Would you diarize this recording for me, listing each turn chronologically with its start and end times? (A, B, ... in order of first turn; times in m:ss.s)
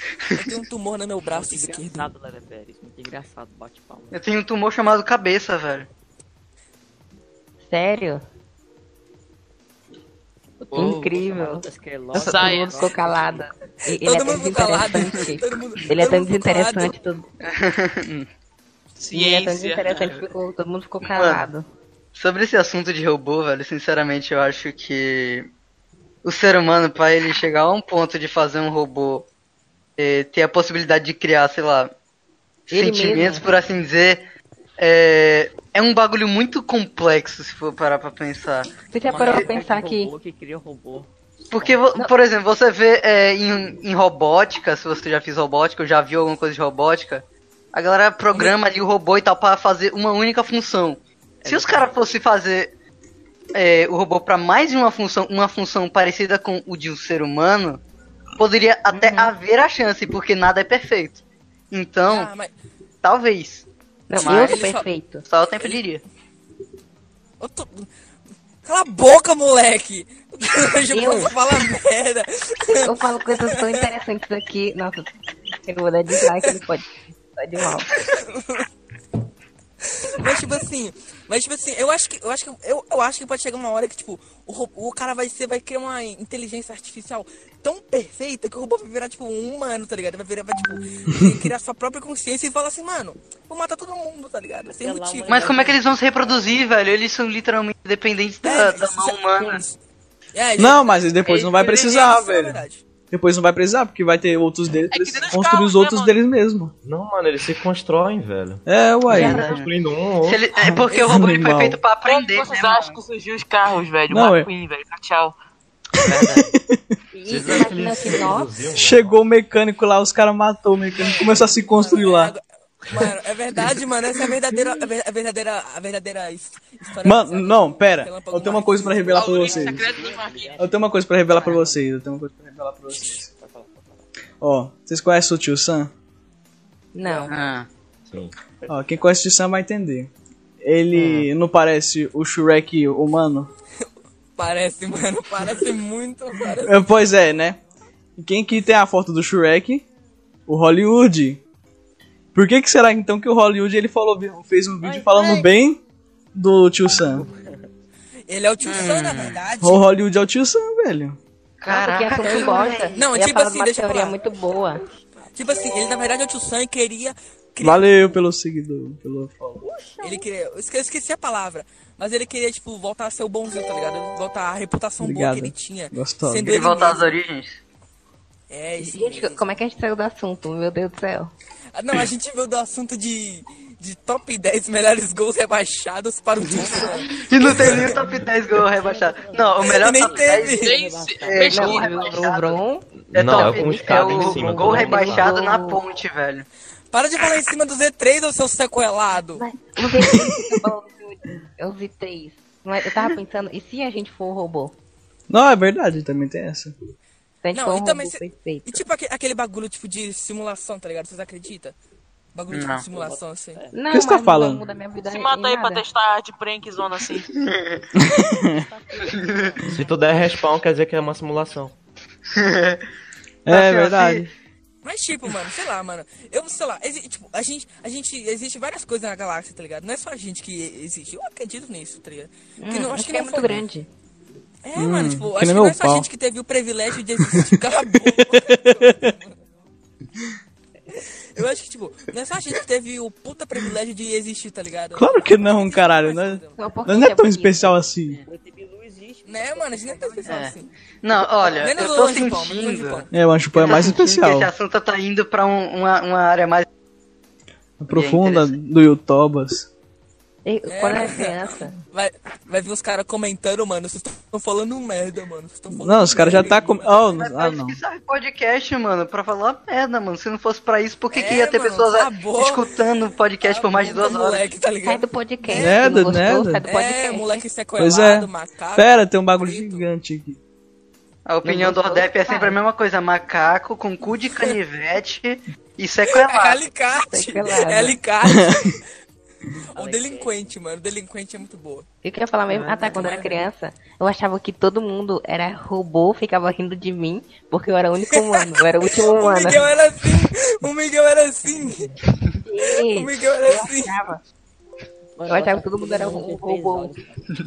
0:00.2-0:00.5 A
0:00.3-0:02.1 B
0:01.3-0:04.2 C
0:04.1-0:05.9 A
0:07.7-0:08.2 D
0:10.6-0:13.5 C
0:10.7-0:11.0 E
0:10.7-0:17.2 D
0:12.2-0:12.9 E
0:13.8-0:17.0 B
0:17.4-0:18.3 A
0:19.0-0:20.2 E
0:19.1-0:21.7 D
0:21.0-0:21.4 A
0:22.2-0:25.5 A
0:26.2-0:29.3 A
0:30.0-0:31.9 A
0:32.7-0:34.3 A
0:32.7-0:33.5 D
0:34.8-0:39.5 A
0:38.9-0:40.1 D
0:39.0-0:41.9 C
0:41.5-0:52.7 A
0:51.4-0:52.0 C
0:53.5-0:57.8 A
0:58.4-1:02.3 A
0:58.9-0:59.3 D
1:02.1-1:02.5 B
1:03.0-1:03.7 A
1:04.1-1:05.2 D
1:04.1-1:04.9 B
1:04.2-1:04.7 A
1:05.3-1:06.0 A
1:07.4-1:07.9 B
1:08.6-1:13.8 B
1:10.9-1:11.4 D
1:12.8-1:15.1 D
1:15.6-1:17.9 D
1:18.0-1:18.7 B
1:19.9-1:35.5 B
1:34.8-1:36.8 C
1:35.3-1:39.6 A
1:38.4-1:39.8 B
1:40.3-1:42.8 B
1:40.6-1:46.7 F
1:44.9-1:46.2 E
1:46.8-1:50.4 G
1:48.7-1:49.5 F
1:49.1-1:49.7 A
1:49.1-1:49.6 D
1:50.2-1:53.0 A
1:50.6-1:51.8 F
1:50.9-1:51.2 B
1:52.0-1:55.3 E
1:54.1-1:54.5 F
1:56.1-1:56.4 G
1:56.1-1:56.8 F
1:57.1-1:58.6 D
1:57.3-1:59.2 G
1:58.7-2:02.4 F
2:01.0-2:09.3 B
2:07.0-2:09.9 F
2:09.0-2:11.8 C
2:09.1-2:10.6 E
2:10.6-2:13.3 F
2:11.4-2:11.6 D
2:13.0-2:14.0 C
2:14.4-2:15.9 F
2:17.0-2:17.3 D
2:17.3-2:17.7 A
2:18.6-2:19.1 C
2:18.7-2:20.1 F
2:20.6-2:23.5 F
2:21.0-2:21.3 D
2:24.4-2:26.9 B
2:26.6-2:27.6 F
2:28.2-2:29.9 F
2:30.5-2:31.4 F
2:32.4-2:35.8 F
2:34.8-2:35.5 C
2:36.4-2:37.3 F
2:37.0-2:37.7 C
2:38.3-2:39.9 B
2:38.7-2:39.4 A
2:39.6-2:41.2 F
2:41.6-2:43.0 A
2:41.7-2:44.8 D
2:43.0-2:44.2 B
2:44.2-2:45.6 C
2:45.3-2:48.2 B
2:47.6-2:49.6 F
2:49.6-2:50.3 C
2:50.0-2:57.2 B
2:55.0-2:56.6 F
2:56.4-2:57.6 A
2:58.5-2:59.5 B
2:58.8-3:01.3 D
3:01.8-3:08.1 B
3:06.4-3:10.7 A
3:07.6-3:12.0 C
3:09.6-3:10.8 B
3:10.5-3:12.3 E
3:11.2-3:12.6 A
3:11.4-3:15.8 D
3:13.0-3:15.3 G
3:13.1-3:16.5 A
3:14.4-3:15.0 C
3:16.9-3:19.4 B
3:19.3-3:24.8 D
3:25.3-3:26.8 F
3:27.4-3:28.8 D
3:27.5-3:31.8 B
3:32.3-3:33.6 B
3:32.5-3:32.8 A
3:32.9-3:33.8 C
3:33.7-3:35.8 D
3:33.9-3:34.6 F
3:35.0-3:37.3 E
3:37.3-3:37.8 A
3:38.0-3:38.7 F
3:38.2-3:40.4 C
3:39.1-3:39.5 A
3:39.7-3:41.7 G
3:42.3-3:42.8 A
3:43.5-3:44.3 F
3:43.5-3:44.3 A
3:44.8-3:53.6 B
3:52.6-3:53.9 D
3:54.6-3:59.4 B
3:54.8-3:56.1 F
3:57.2-3:59.2 F
4:00.9-4:06.6 B
4:05.0-4:08.2 F
4:06.6-4:07.7 D
4:08.1-4:10.5 C
4:09.2-4:10.7 B
4:10.3-4:16.7 A
4:11.4-4:13.1 B
4:13.1-4:14.5 F
4:17.8-4:19.7 F
4:17.9-4:18.5 A
4:20.4-4:21.8 D
4:20.7-4:26.9 B
4:25.7-4:27.8 F
4:27.1-4:34.5 A
4:31.1-4:32.6 B
4:33.4-4:35.9 B
4:34.8-4:37.4 D
4:35.6-4:36.6 F
4:36.6-4:39.9 B
4:37.8-4:40.4 F
4:41.3-4:46.6 A
4:41.4-4:42.6 D
4:46.1-4:48.9 B
4:47.0-4:48.0 D
4:48.2-4:48.7 F
4:49.8-4:50.5 C
4:49.8-4:51.9 B
4:52.0-4:59.7 D
4:52.5-4:53.3 C
4:52.9-4:53.3 B
4:58.1-5:01.9 B
5:01.5-5:02.0 C
5:02.4-5:04.2 D
5:02.7-5:03.9 B
5:05.2-5:07.3 C
5:05.3-5:07.0 D